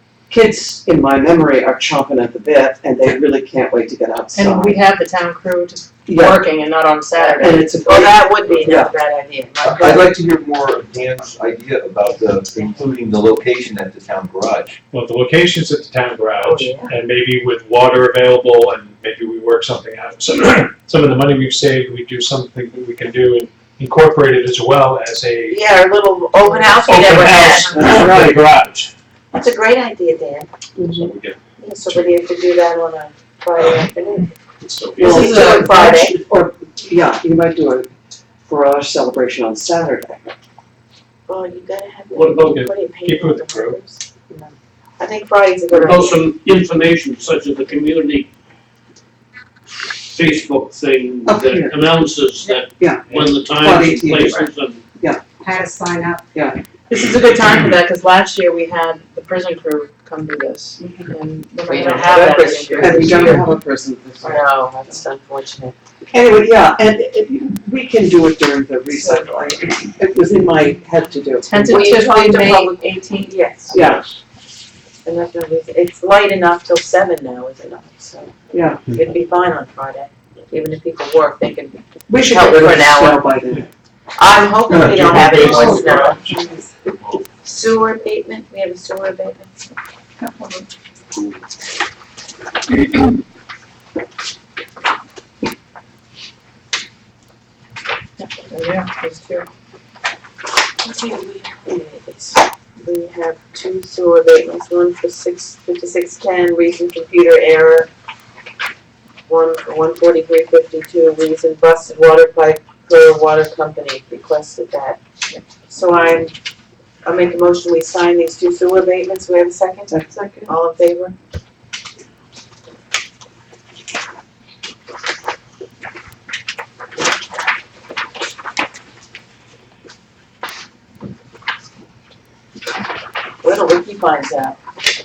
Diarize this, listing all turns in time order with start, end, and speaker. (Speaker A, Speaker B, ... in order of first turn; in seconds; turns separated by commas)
Speaker A: 0.3-4.8, Speaker B: 4.3-7.7, Speaker A: 6.1-6.4, Speaker C: 7.2-10.1, Speaker A: 7.4-8.9, Speaker D: 9.6-14.8, Speaker E: 14.9-25.6, Speaker C: 16.4-16.9, Speaker C: 25.5-28.0, Speaker E: 26.6-28.9, Speaker A: 27.5-28.4, Speaker C: 29.3-30.5, Speaker A: 30.8-31.1, Speaker E: 31.0-31.4, Speaker C: 31.6-34.3, Speaker E: 34.6-35.5, Speaker C: 35.0-36.1, Speaker A: 35.0-37.9, Speaker B: 35.3-35.7, Speaker A: 38.5-40.3, Speaker C: 41.3-44.0, Speaker F: 42.1-42.6, Speaker E: 42.4-43.8, Speaker C: 45.0-46.2, Speaker F: 45.7-48.3, Speaker F: 50.1-54.8, Speaker A: 51.3-51.8, Speaker A: 52.8-54.5, Speaker G: 55.4-56.2, Speaker B: 56.9-63.5, Speaker A: 60.8-61.1, Speaker C: 61.7-63.5, Speaker A: 62.1-65.0, Speaker C: 64.2-65.8, Speaker A: 66.1-71.5, Speaker C: 69.0-69.3, Speaker B: 71.4-73.7, Speaker C: 71.5-74.0, Speaker A: 73.7-74.0, Speaker C: 75.1-78.3, Speaker A: 78.5-78.8, Speaker C: 78.9-83.2, Speaker A: 82.1-83.7, Speaker C: 84.2-86.2, Speaker A: 84.7-85.1, Speaker E: 84.7-86.4, Speaker G: 85.3-86.7, Speaker C: 87.4-89.5, Speaker B: 90.2-90.7, Speaker B: 98.2-99.5, Speaker C: 100.8-107.9, Speaker C: 109.3-115.0, Speaker C: 115.7-116.3, Speaker C: 117.0-121.2, Speaker A: 119.9-120.5, Speaker C: 133.4-134.6